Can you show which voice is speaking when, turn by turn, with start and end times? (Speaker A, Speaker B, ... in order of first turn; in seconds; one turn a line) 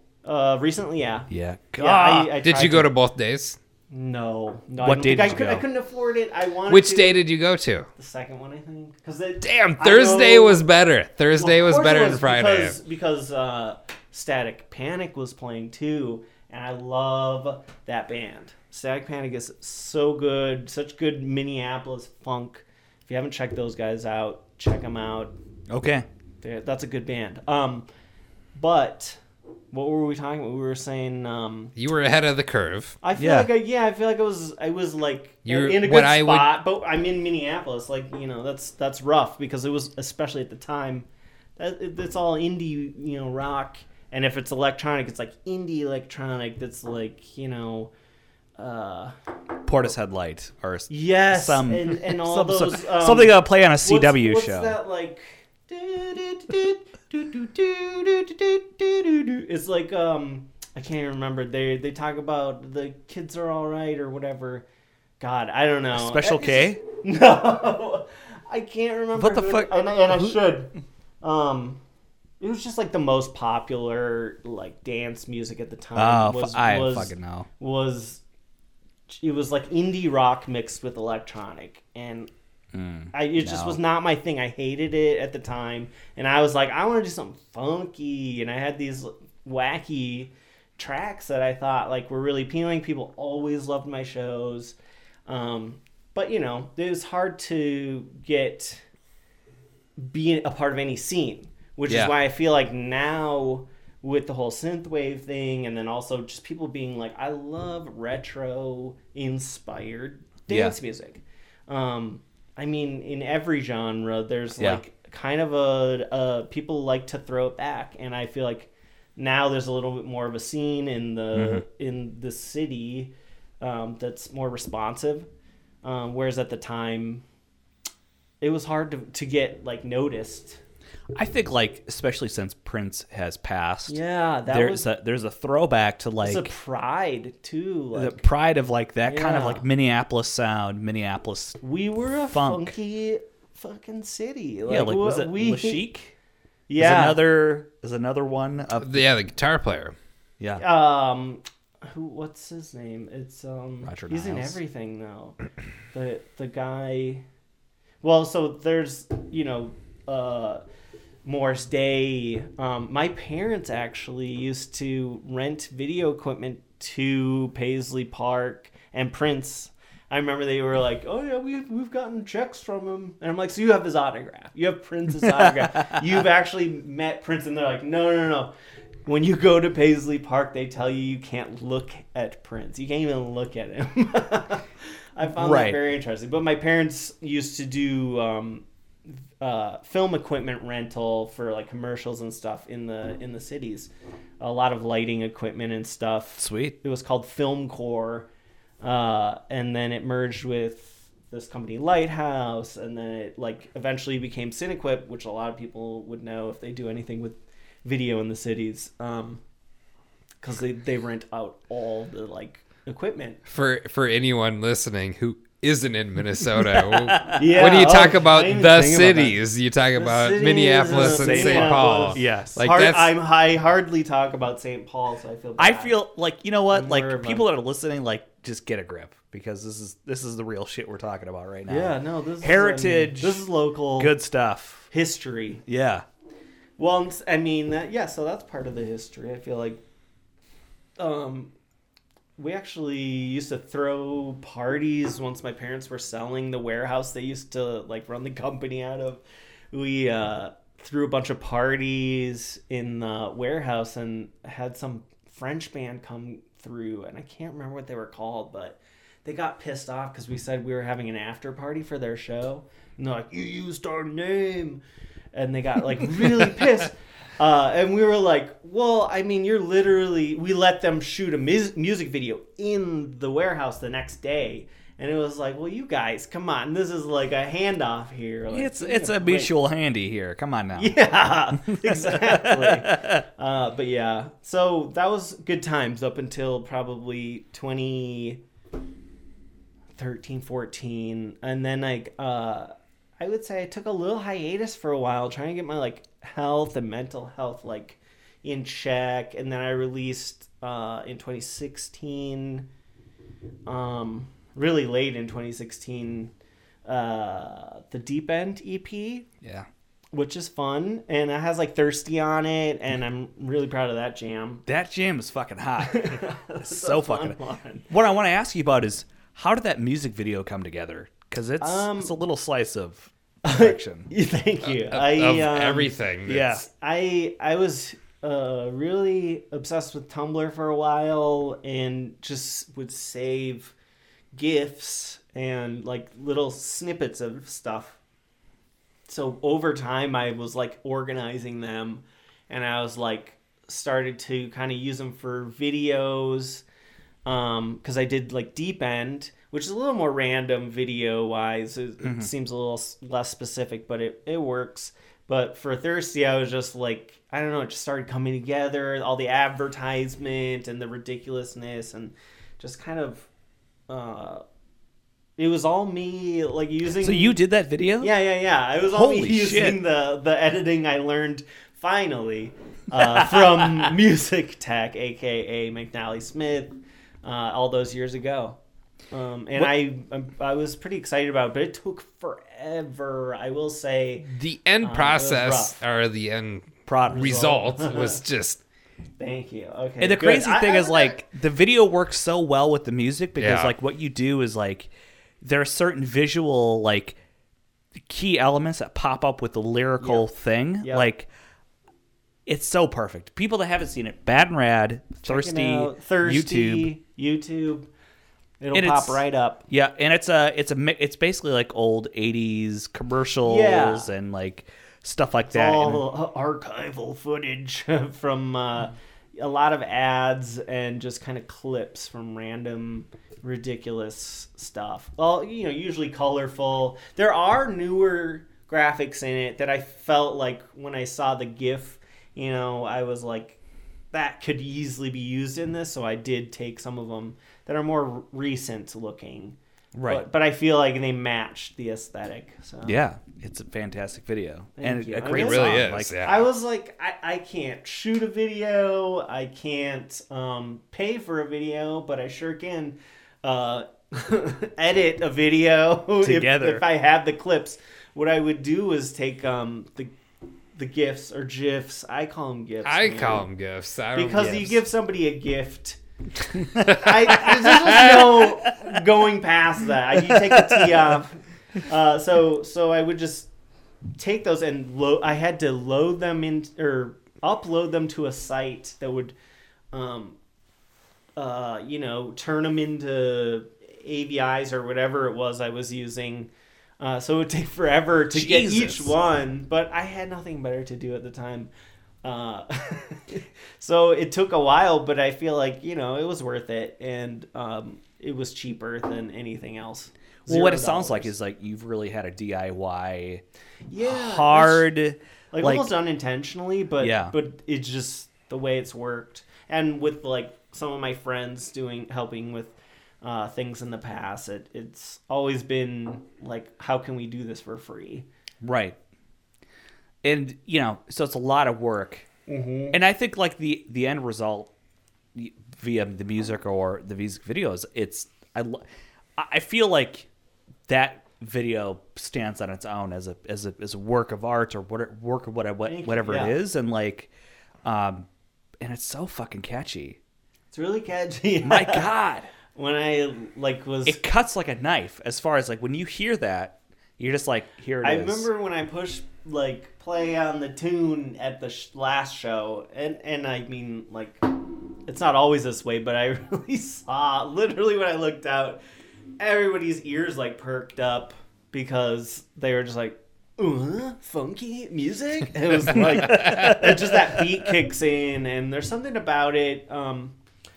Speaker A: 0.2-2.9
Speaker B: 1.3-2.4
Speaker C: 2.4-3.6
Speaker A: 3.9-7.2
Speaker B: 4.8-5.6
Speaker C: 6.7-7.9
Speaker A: 8.0-10.6
Speaker C: 9.4-12.8
Speaker A: 11.4-25.3
Speaker B: 25.7-26.1
Speaker A: 26.4-27.9
Speaker A: 28.5-29.2
Speaker A: 29.7-31.7
Speaker C: 31.8-33.0
Speaker A: 33.0-47.9
Speaker B: 33.1-33.5
Speaker C: 35.5-36.6
Speaker A: 48.6-49.1
Speaker B: 49.6-54.8
Speaker A: 50.9-64.7
Speaker A: 65.2-71.8
Speaker B: 65.9-66.8
Speaker B: 69.1-70.4
Speaker A: 72.4-78.2
Speaker B: 75.9-77.5
Speaker A: 79.1-82.3
Speaker B: 82.7-83.8
Speaker A: 83.1-94.8
Speaker A: 95.3-98.8
Speaker A: 100.0-125.3
Speaker B: 101.9-102.1
Speaker B: 110.5-110.7
Speaker B: 121.3-121.6
Speaker A: 125.8-127.2
Speaker A: 128.4-130.6
Speaker B: 131.1-136.5
Speaker A: 133.9-134.9
Speaker A: 136.2-138.2
Speaker B: 137.9-141.6
Speaker A: 139.1-139.7
Speaker A: 141.6-145.9
Speaker B: 142.3-142.7
Speaker B: 144.7-146.1
Speaker A: 146.7-147.2
Speaker B: 146.8-149.1
Speaker C: 148.8-149.9
Speaker A: 150.6-155.4
Speaker B: 153.8-154.6
Speaker A: 155.9-157.2
Speaker A: 158.0-160.6
Speaker A: 161.2-178.5
Speaker B: 175.2-176.0
Speaker A: 179.1-198.3
Speaker B: 185.3-185.8
Speaker B: 196.4-196.8
Speaker A: 198.8-209.4
Speaker A: 210.4-213.4
Speaker C: 213.5-223.1
Speaker B: 216.5-217.9
Speaker A: 217.3-219.4
Speaker A: 220.0-225.9
Speaker B: 220.9-222.6
Speaker B: 225.6-233.4
Speaker A: 226.7-227.4
Speaker A: 231.7-234.1
Speaker B: 234.0-234.9
Speaker A: 234.9-235.6
Speaker B: 235.7-236.0
Speaker A: 236.8-239.8
Speaker A: 241.0-241.5
Speaker A: 242.4-264.8
Speaker A: 265.3-279.5
Speaker B: 278.5-281.0
Speaker A: 280.8-288.4
Speaker B: 281.6-283.2
Speaker A: 290.0-302.7
Speaker A: 303.6-306.3
Speaker A: 306.9-309.3
Speaker B: 309.4-309.7
Speaker A: 310.1-314.6
Speaker B: 314.6-317.4
Speaker A: 315.8-317.9
Speaker B: 317.9-324.1
Speaker A: 321.6-322.1
Speaker A: 323.4-325.9
Speaker C: 324.6-326.5
Speaker B: 326.2-326.6
Speaker A: 326.6-333.7
Speaker A: 334.3-338.0
Speaker A: 339.1-346.6
Speaker A: 347.2-363.3
Speaker B: 352.0-352.3
Speaker A: 363.9-364.4
Speaker A: 365.4-367.4
Speaker B: 367.0-368.1
Speaker A: 368.0-378.6
Speaker B: 368.8-369.8
Speaker B: 373.3-373.9
Speaker A: 379.1-384.3
Speaker C: 384.3-388.6
Speaker A: 384.8-385.8
Speaker B: 386.9-387.3
Speaker A: 387.1-388.2
Speaker A: 389.2-391.2
Speaker B: 390.0-394.9
Speaker C: 393.4-393.7
Speaker B: 395.4-397.2
Speaker B: 398.1-401.3
Speaker A: 400.0-400.3
Speaker A: 400.8-401.1
Speaker B: 402.4-406.9
Speaker A: 405.2-407.9
Speaker A: 408.6-409.6
Speaker B: 408.7-416.1
Speaker A: 413.4-414.1
Speaker A: 415.5-433.6
Speaker A: 434.1-443.0
Speaker B: 439.9-440.2
Speaker B: 442.8-446.2
Speaker A: 444.8-460.1
Speaker C: 445.3-446.5
Speaker B: 456.2-456.8
Speaker A: 460.8-463.5
Speaker C: 462.8-464.7
Speaker A: 464.1-466.0
Speaker A: 466.6-473.5
Speaker B: 467.4-469.0
Speaker B: 470.1-471.2
Speaker A: 474.1-479.3
Speaker A: 479.9-480.4
Speaker A: 481.4-491.7
Speaker B: 488.3-489.1
Speaker A: 492.2-501.3
Speaker B: 500.4-503.4
Speaker A: 503.9-504.9
Speaker B: 504.0-505.9
Speaker A: 505.5-518.2
Speaker B: 507.0-507.3
Speaker B: 518.6-519.0
Speaker B: 520.2-522.3
Speaker A: 522.5-523.0
Speaker B: 522.9-524.7
Speaker B: 525.3-530.3
Speaker B: 530.9-537.3
Speaker A: 535.9-536.5
Speaker B: 537.8-538.3
Speaker B: 538.8-540.2
Speaker A: 540.7-542.1
Speaker B: 541.6-542.5
Speaker A: 542.7-544.2
Speaker B: 544.0-548.5
Speaker A: 548.0-558.8
Speaker A: 559.4-570.4
Speaker B: 565.9-567.7